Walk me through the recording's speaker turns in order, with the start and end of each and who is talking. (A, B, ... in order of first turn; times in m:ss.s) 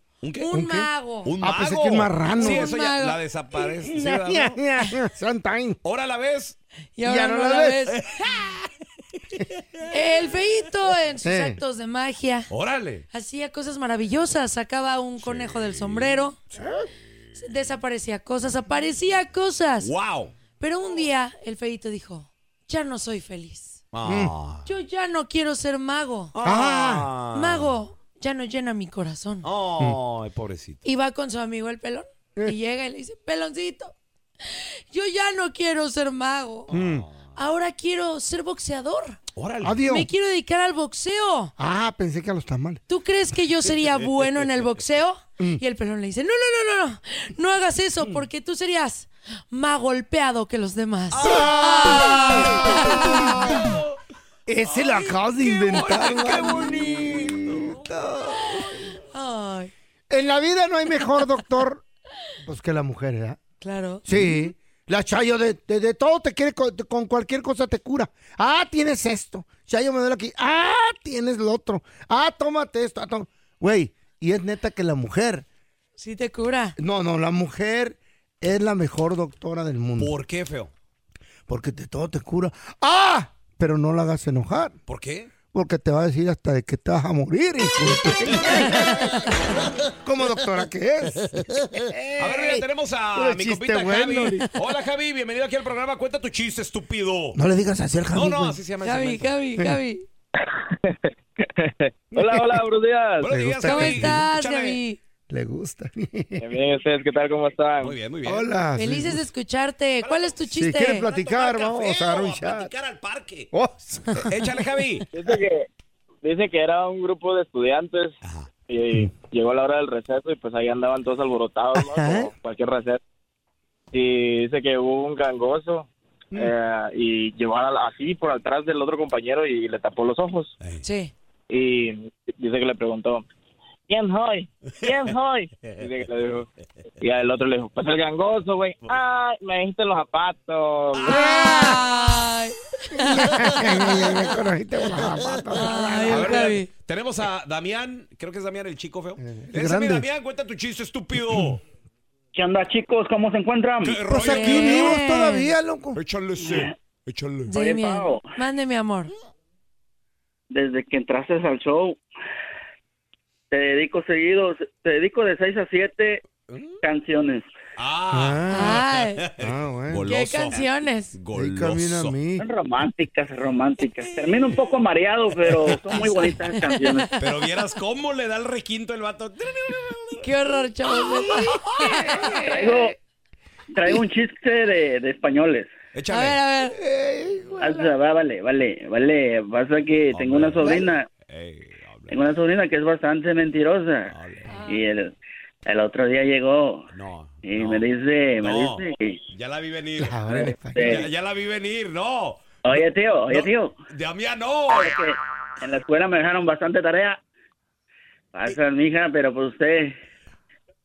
0:00.2-0:00.5 A
0:00.4-0:01.3 B
0:00.5-0:00.9 C
0:01.2-0:04.6 A
0:01.4-0:02.7 C
0:02.4-0:03.2 B
0:03.8-0:05.8 C
0:05.8-0:06.6 A
0:07.0-0:08.0 B
0:07.0-0:07.9 C
0:07.9-0:08.7 A
0:09.9-0:12.5 B
0:11.2-0:11.6 C
0:12.5-0:13.0 A
0:13.1-0:16.4 B
0:15.2-0:16.2 A
0:17.4-0:19.9 B
0:19.8-0:20.3 A
0:20.6-0:23.8 B
0:23.9-0:24.7 A
0:24.0-0:24.3 C
0:24.6-0:26.3 B
0:26.3-0:27.7 A
0:26.4-0:27.1 C
0:27.3-0:29.5 B
0:29.4-0:30.8 A
0:30.8-0:33.9 B
0:34.5-0:36.7 B
0:36.7-0:37.3 A
0:36.7-0:37.1 C
0:37.4-0:39.2 B
0:39.4-0:39.8 A
0:39.6-0:40.1 C
0:39.8-0:41.5 B
0:41.6-0:42.8 C
0:42.9-0:53.3 B
0:51.1-0:53.9 A
0:51.2-0:53.7 C
0:54.5-0:58.6 C
0:54.7-0:57.9 A
0:59.1-0:59.7 B
1:00.1-1:01.8 C
1:02.4-1:03.4 C
1:03.6-1:04.0 B
1:04.0-1:15.4 C
1:16.0-1:16.8 B
1:16.8-1:20.1 C
1:20.0-1:20.7 A
1:21.5-1:24.7 C
1:24.9-1:25.3 A
1:25.5-1:29.3 C
1:28.4-1:28.8 A
1:29.9-1:34.5 C
1:32.0-1:37.4 A
1:37.3-1:38.6 C
1:38.1-1:39.3 A
1:38.8-1:40.0 B
1:40.8-1:43.3 D
1:43.2-1:44.8 A
1:43.2-1:44.2 C
1:43.6-1:45.0 B
1:45.3-1:46.4 C
1:46.4-1:48.0 D
1:47.8-1:48.5 A
1:48.2-1:49.2 C
1:48.8-1:51.1 B
1:50.0-1:50.4 A
1:50.5-1:52.7 C
1:51.0-1:53.5 A
1:53.5-1:54.2 C
1:54.2-1:55.1 A
1:55.1-1:55.7 D
1:56.2-1:58.2 D
1:58.7-2:03.0 D
2:01.8-2:02.3 C
2:03.9-2:10.5 D
2:10.8-2:11.1 B
2:11.5-2:13.2 D
2:13.9-2:16.4 D
2:17.0-2:21.2 D
2:20.9-2:21.9 A
2:21.1-2:23.7 B
2:21.2-2:21.8 C
2:23.0-2:26.6 C
2:23.6-2:24.1 A
2:25.5-2:26.7 B
2:26.0-2:31.6 A
2:29.2-2:30.0 C
2:32.3-2:34.0 E
2:33.8-2:35.0 A
2:34.1-2:36.0 C
2:34.2-2:35.5 B
2:35.9-2:37.5 A
2:37.5-2:39.1 B
2:37.5-2:38.2 E
2:40.5-2:42.0 E
2:43.5-2:46.2 E
2:46.5-2:46.8 A
2:46.8-2:47.5 E
2:47.8-2:52.2 A
2:48.1-2:48.8 C
2:48.5-2:49.2 B
2:49.4-2:50.1 C
2:50.1-2:51.1 B
2:51.3-2:52.4 C
2:52.4-2:57.1 E
2:55.4-2:56.3 A
2:57.2-3:00.3 A
3:00.2-3:02.2 B
3:01.0-3:02.9 C
3:02.4-3:02.9 E
3:03.7-3:05.7 E
3:05.9-3:06.4 A
3:06.1-3:06.8 B
3:06.8-3:07.9 C
3:07.6-3:11.0 E
3:10.1-3:12.2 A
3:12.1-3:14.1 E
3:14.1-3:14.5 A
3:14.5-3:14.8 B
3:14.7-3:15.1 E
3:15.6-3:16.8 E
3:16.9-3:17.8 A
3:17.4-3:19.2 E
3:18.4-3:25.0 A
3:20.0-3:21.0 C
3:20.3-3:21.0 E
3:22.6-3:23.7 E
3:24.7-3:27.2 E
3:28.3-3:30.0 E